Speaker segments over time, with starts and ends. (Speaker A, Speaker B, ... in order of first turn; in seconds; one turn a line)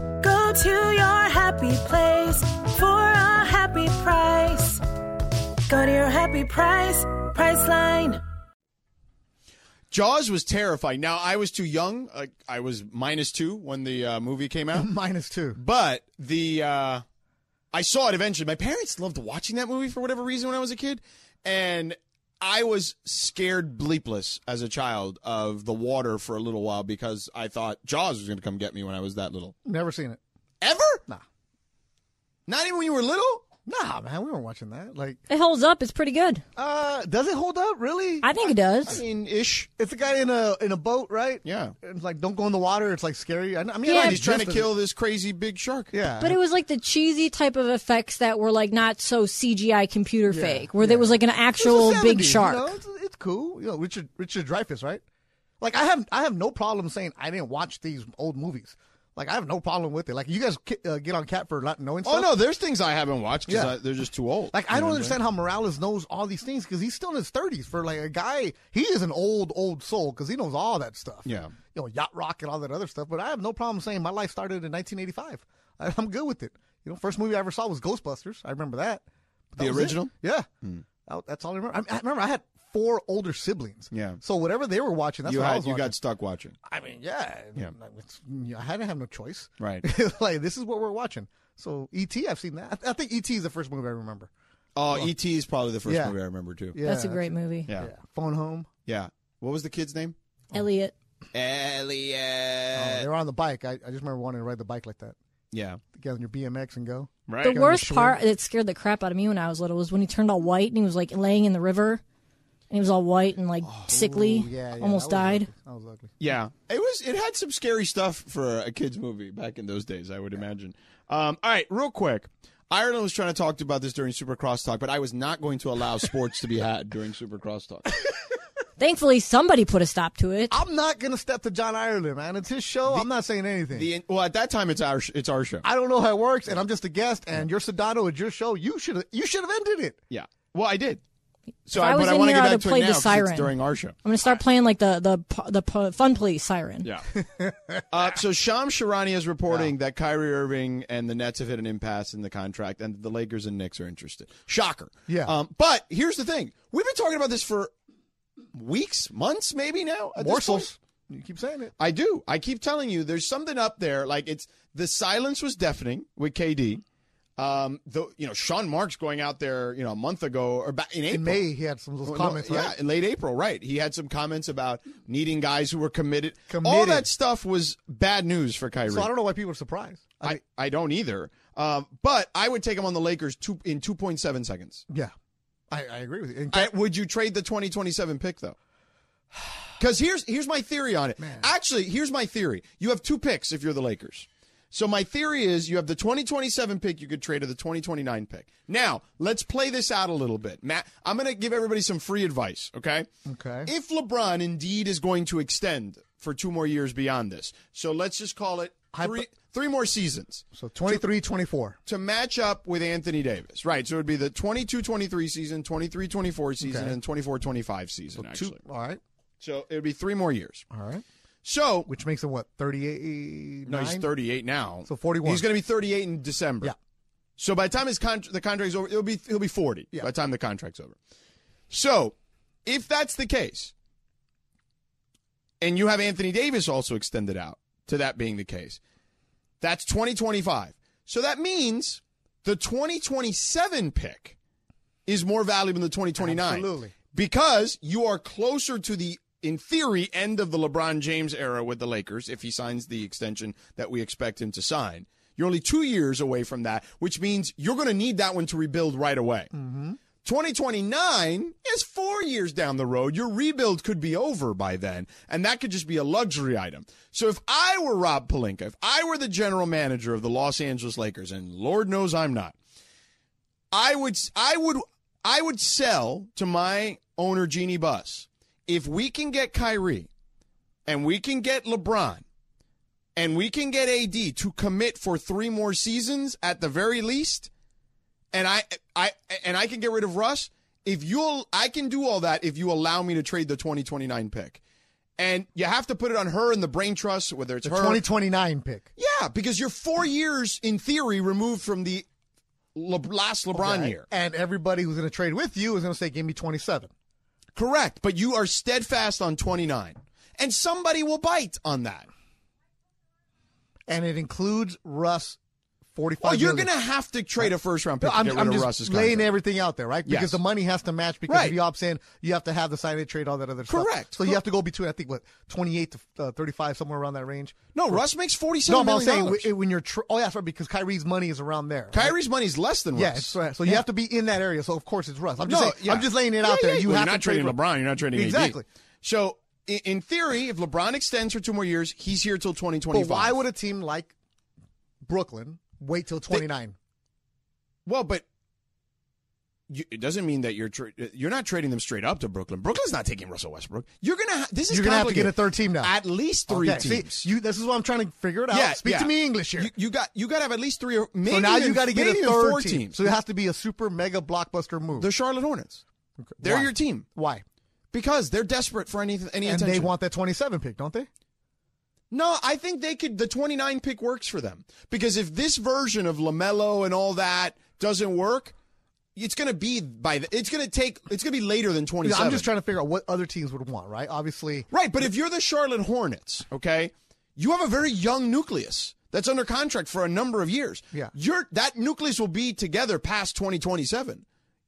Speaker A: 0.2-4.8
Speaker A: 5.7-8.2
Speaker B: 9.9-14.9
Speaker C: 14.7-15.6
Speaker B: 15.6-17.0
Speaker B: 17.7-29.6
Speaker C: 29.6-30.2
Speaker B: 30.6-31.0
Speaker B: 32.5-33.5
Speaker C: 33.7-35.2
Speaker D: 35.3-36.4
Speaker C: 36.6-38.3
Speaker D: 38.2-39.0
Speaker B: 38.8-39.7
Speaker C: 39.8-44.7
Speaker B: 41.4-41.8
Speaker D: 43.9-44.2
Speaker B: 43.9-45.9
Speaker C: 45.9-46.4
Speaker D: 46.2-52.8
Speaker C: 50.3-55.0
Speaker C: 55.6-62.4
Speaker B: 62.0-65.2
Speaker C: 63.5-63.8
Speaker C: 64.5-86.0
Speaker B: 71.2-71.5
Speaker B: 79.6-80.8
Speaker B: 83.9-84.2
Speaker B: 85.2-86.5
Speaker C: 86.7-94.3
Speaker B: 89.6-89.8
Speaker B: 94.8-96.8
Speaker C: 95.8-96.2
Speaker C: 96.7-98.7
Speaker D: 96.8-97.7
Speaker B: 98.9-100.2
Speaker D: 100.5-100.9
Speaker B: 101.3-103.1
Speaker C: 102.8-105.2
Speaker B: 105.5-105.8
Speaker C: 105.9-108.2
Speaker B: 107.3-107.6
Speaker D: 107.4-112.0
Speaker D: 112.7-115.5
Speaker C: 113.8-116.1
Speaker B: 116.2-127.9
Speaker D: 128.8-130.6
Speaker C: 130.5-133.9
Speaker B: 133.7-135.7
Speaker C: 135.6-140.0
Speaker B: 140.1-141.0
Speaker B: 141.7-144.4
Speaker D: 141.7-146.9
Speaker C: 147.2-147.8
Speaker B: 147.9-157.7
Speaker C: 155.1-155.4
Speaker B: 158.5-160.7
Speaker C: 160.2-161.7
Speaker B: 161.8-166.8
Speaker B: 167.4-171.4
Speaker C: 171.1-172.8
Speaker B: 172.1-179.1
Speaker C: 176.5-177.1
Speaker C: 178.8-180.4
Speaker B: 180.2-184.8
Speaker C: 185.7-186.8
Speaker B: 186.5-188.6
Speaker B: 189.8-203.1
Speaker C: 191.2-191.5
Speaker C: 203.3-203.7
Speaker B: 203.7-211.0
Speaker C: 208.9-209.2
Speaker C: 210.6-211.8
Speaker B: 211.9-218.6
Speaker C: 216.6-217.0
Speaker C: 218.2-219.0
Speaker B: 219.4-220.7
Speaker C: 220.7-221.0
Speaker B: 221.4-221.9
Speaker C: 221.9-224.1
Speaker B: 223.7-226.7
Speaker C: 224.8-225.4
Speaker B: 227.4-231.0
Speaker B: 231.7-233.7
Speaker B: 235.6-238.8
Speaker B: 239.6-244.4
Speaker B: 245.1-259.5
Speaker C: 246.2-247.0
Speaker C: 259.5-260.0
Speaker B: 260.2-272.6
Speaker B: 273.7-280.1
Speaker B: 280.9-282.2
Speaker B: 283.2-287.5
Speaker B: 288.3-294.6
Speaker B: 295.2-298.0
Speaker C: 297.6-298.9
Speaker B: 299.0-302.1
Speaker B: 302.8-304.1
Speaker C: 303.5-306.9
Speaker B: 307.6-312.1
Speaker C: 313.9-315.4
Speaker C: 315.9-316.7
Speaker B: 316.2-319.3
Speaker C: 317.4-328.0
Speaker B: 320.1-320.4
Speaker B: 321.3-321.6
Speaker B: 323.7-324.4
Speaker B: 327.7-329.5
Speaker C: 328.7-332.1
Speaker B: 331.9-333.9
Speaker C: 332.9-337.6
Speaker B: 335.4-343.4
Speaker C: 338.1-338.6
Speaker C: 342.9-344.1
Speaker C: 345.0-346.8
Speaker B: 347.9-348.2
Speaker B: 349.7-357.3
Speaker C: 354.7-359.7
Speaker B: 358.5-363.1
Speaker C: 361.3-365.1
Speaker B: 365.0-365.8
Speaker C: 366.2-367.4
Speaker B: 366.4-367.1
Speaker B: 367.9-369.9
Speaker C: 369.4-371.1
Speaker B: 372.1-378.5
Speaker B: 379.1-382.5
Speaker C: 382.0-384.7
Speaker B: 384.7-394.2